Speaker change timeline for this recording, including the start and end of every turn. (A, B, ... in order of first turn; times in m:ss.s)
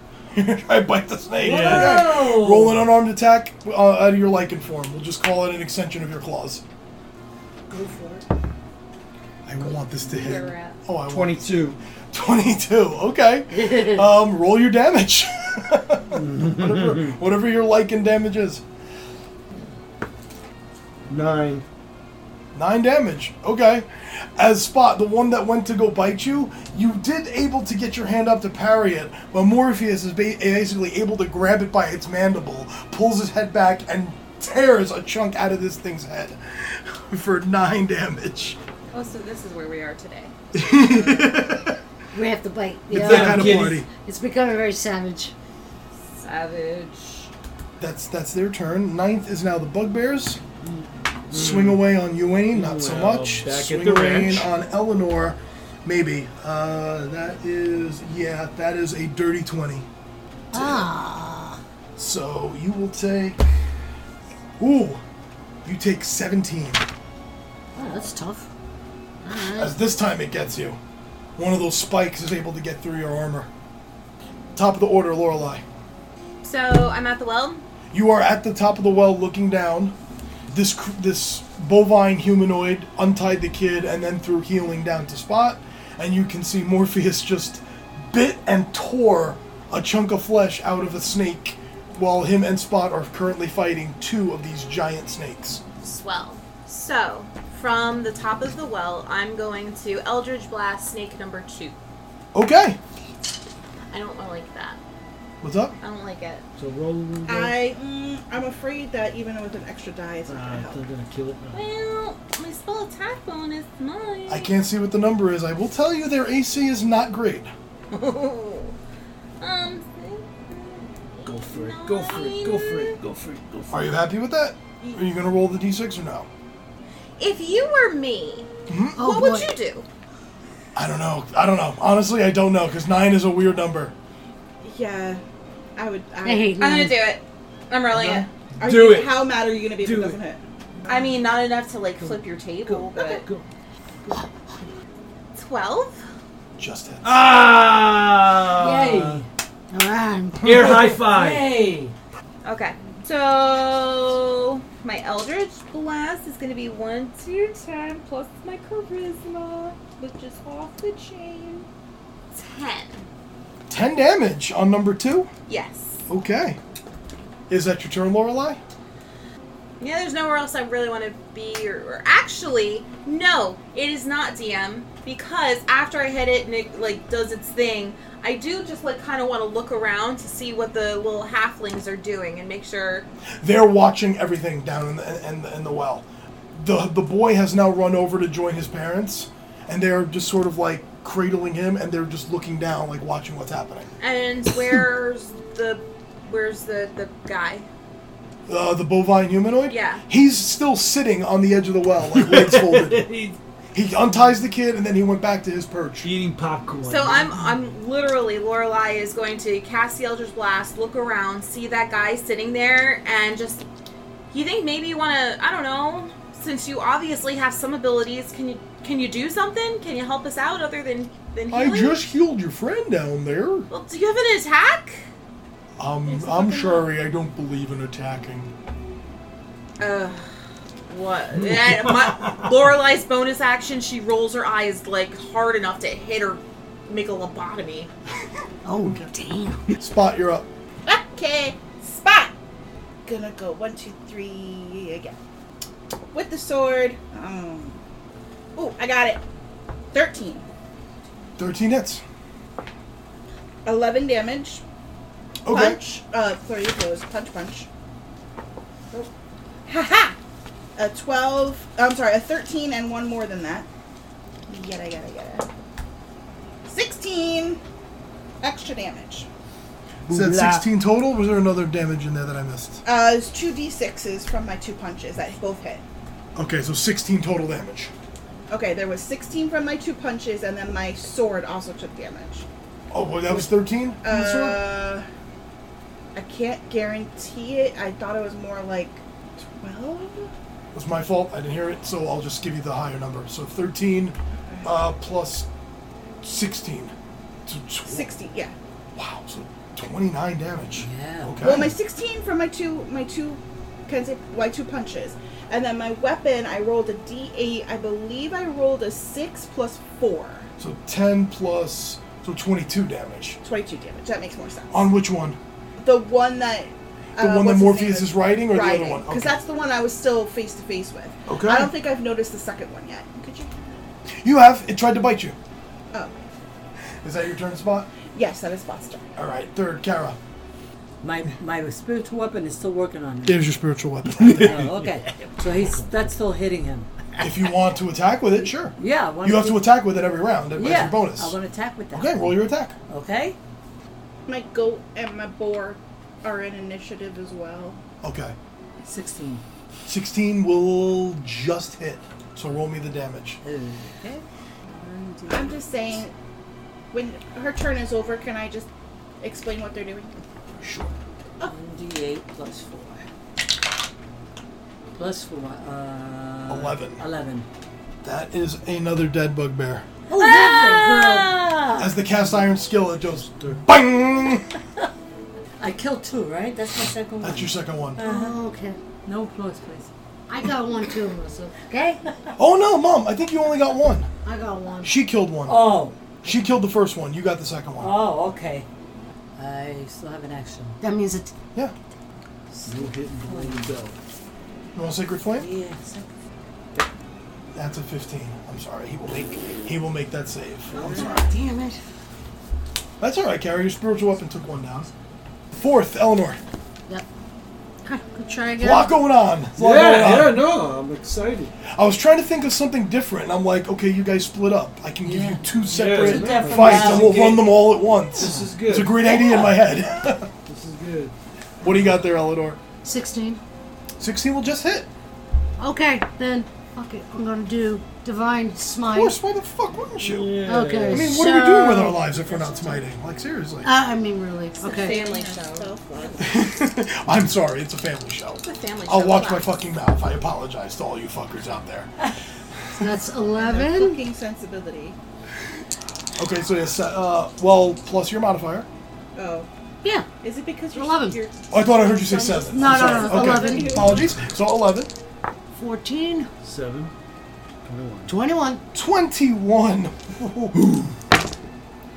0:00.3-0:06.6 A
0:01.4-0:02.2 B
0:01.4-0:02.8 C
0:07.7-0:08.2 C
0:09.4-0:18.6 A
0:10.1-0:10.8 D
0:11.0-0:11.8 B
0:16.1-0:17.1 B
0:21.1-0:21.6 B
0:22.5-0:38.6 A
0:38.9-0:41.4 D
0:40.5-0:41.8 A
0:42.1-0:45.3 E
0:42.9-0:43.9 A
0:42.9-0:43.8 B
0:46.1-0:47.3 D
0:47.8-0:50.4 A
0:51.3-0:51.8 B
0:51.3-0:59.8 A
0:52.5-0:54.5 B
1:00.5-1:00.9 A
1:00.5-1:01.6 E
1:02.0-1:03.6 A
1:04.6-1:05.0 A
1:05.6-1:06.8 A
1:07.7-1:08.5 E
1:09.2-1:09.7 E
1:09.6-1:10.8 A
1:11.4-1:13.5 A
1:14.6-1:15.6 A
1:16.4-1:17.6 D
1:17.9-1:19.9 A
1:20.5-1:35.6 A
1:35.8-1:41.8 D
1:42.3-1:42.8 A
1:43.9-1:44.8 D
1:45.4-1:45.8 A
1:45.8-1:46.4 D
1:46.6-1:47.6 B
1:47.2-1:50.8 F
1:50.3-1:51.6 B
1:51.5-1:54.5 D
1:54.3-1:57.5 A
1:57.9-1:58.7 D
1:59.4-2:03.0 D
2:01.2-2:03.9 B
2:03.7-2:06.3 A
2:07.2-2:09.8 D
2:08.7-2:09.0 A
2:09.0-2:09.5 E
2:10.7-2:13.9 A
2:14.6-2:15.2 F
2:15.8-2:16.6 F
2:16.2-2:17.0 E
2:16.6-2:18.3 D
2:17.9-2:18.3 A
2:18.6-2:20.2 B
2:18.6-2:20.4 F
2:20.9-2:23.2 D
2:22.0-2:23.4 B
2:25.3-2:26.0 D
2:26.6-2:27.2 A
2:27.0-2:29.2 B
2:28.5-2:29.2 C
2:29.7-2:30.4 E
2:30.4-2:30.9 A
2:30.4-2:31.5 B
2:30.9-2:31.9 C
2:32.4-2:41.7 D
2:42.3-2:43.0 D
2:43.7-2:45.3 A
2:45.5-2:46.0 D
2:46.1-2:46.6 A
2:47.5-2:48.6 A
2:49.8-3:03.1 D
3:03.4-3:13.9 A
3:14.0-3:17.7 D
3:18.5-3:23.1 A
3:19.7-3:20.0 D
3:22.1-3:23.4 B
3:23.7-3:26.1 A
3:26.0-3:27.4 B
3:26.8-3:33.6 D
3:34.3-3:42.0 D
3:41.5-3:43.7 A
3:43.7-3:45.0 D
3:45.8-3:48.5 A
3:46.2-3:46.8 D
3:49.8-3:50.3 D
3:50.9-3:57.9 D
3:58.6-3:59.7 E
3:59.7-4:00.5 A
4:00.8-4:02.3 F
4:03.0-4:05.2 F
4:06.1-4:07.8 F
4:08.6-4:09.2 F
4:09.9-4:10.4 F
4:11.4-4:12.0 A
4:13.6-4:14.6 F
4:15.4-4:15.8 A
4:15.5-4:17.7 F
4:19.7-4:20.2 F
4:20.8-4:23.7 F
4:24.5-4:25.4 F
4:26.7-4:27.6 F
4:28.4-4:29.3 F
4:30.1-4:30.6 B
4:30.1-4:32.8 A
4:32.8-4:35.8 F
4:36.3-4:37.9 A
4:38.5-4:42.4 F
4:42.9-4:44.6 A
4:44.0-4:45.0 F
4:46.1-4:49.0 F
4:49.6-4:50.3 F
4:50.7-4:55.5 A
4:54.5-4:54.7 F
4:56.2-4:56.9 A
4:57.4-4:58.1 A
4:57.8-4:58.5 F
4:58.9-5:01.7 A
5:00.7-5:01.6 C
5:01.4-5:10.5 F
5:10.6-5:13.4 A
5:13.4-5:14.9 F
5:14.7-5:15.4 A
5:15.8-5:23.5 F
5:17.2-5:19.4 A
5:21.3-5:21.7 A
5:24.2-5:25.4 A
5:25.9-5:26.2 F
5:27.0-5:27.9 A
5:28.1-5:29.1 F
5:29.2-5:30.2 A
5:31.0-5:33.4 C
5:33.2-5:34.6 A
5:34.3-5:34.8 B
5:34.3-5:36.9 C
5:37.2-5:41.3 A
5:38.7-5:39.6 C
5:40.5-5:42.4 C
5:41.9-5:42.7 A
5:42.9-5:43.4 C
5:44.3-5:47.8 F
5:48.0-5:48.4 A
5:48.8-5:49.4 C
5:49.9-5:53.4 A
5:53.4-5:56.0 C
5:55.3-5:56.1 F
5:56.9-5:58.7 F
5:59.2-6:00.2 F
6:00.6-6:00.9 A
6:01.4-6:03.0 C
6:04.9-6:07.5 C
6:06.5-6:07.0 A
6:08.0-6:09.8 A
6:10.1-6:11.4 E
6:10.2-6:11.1 D
6:10.6-6:12.0 C
6:11.8-6:14.5 A
6:13.1-6:13.6 B
6:15.6-6:18.4 C
6:17.2-6:18.0 A
6:18.0-6:18.8 E
6:19.0-6:19.9 C
6:20.3-6:22.0 E
6:22.4-6:24.1 A
6:24.2-6:25.0 E
6:24.8-6:28.0 A
6:25.4-6:26.1 C
6:27.8-6:28.7 C
6:29.4-6:30.8 C
6:30.8-6:31.3 E
6:32.5-6:33.7 C
6:32.6-6:34.0 B
6:34.7-6:35.5 A
6:35.3-6:36.1 C
6:37.5-6:41.2 A
6:40.7-6:41.2 C
6:40.8-6:41.8 E
6:43.0-6:44.9 A
6:45.5-6:46.4 A
6:47.8-6:48.9 E
6:48.6-6:50.4 A
6:49.5-6:51.5 B
6:51.7-7:00.3 A
6:55.0-6:57.5 C
6:55.7-6:57.4 B
6:58.2-6:59.2 B
7:00.5-7:01.1 B
7:01.6-7:02.6 A
7:02.8-7:03.4 E
7:04.0-7:04.9 A
7:05.6-7:09.2 E
7:08.9-7:10.4 A
7:10.0-7:11.2 B
7:10.4-7:12.0 E
7:10.9-7:13.7 A
7:13.6-7:15.0 E
7:14.6-7:16.2 D
7:14.6-7:16.4 F
7:16.2-7:21.9 A
7:18.4-7:19.5 D
7:22.7-7:24.0 E
7:23.4-7:25.0 F
7:26.2-7:28.7 A
7:29.1-7:29.5 F
7:29.8-7:30.1 E
7:30.2-7:34.0 F
7:30.7-7:31.2 E
7:31.5-7:34.9 A
7:32.5-7:34.0 E
7:35.5-7:36.3 E
7:36.4-7:36.9 B
7:37.6-7:38.1 B
7:38.1-7:38.6 E
7:38.7-7:40.6 A
7:40.6-7:40.9 B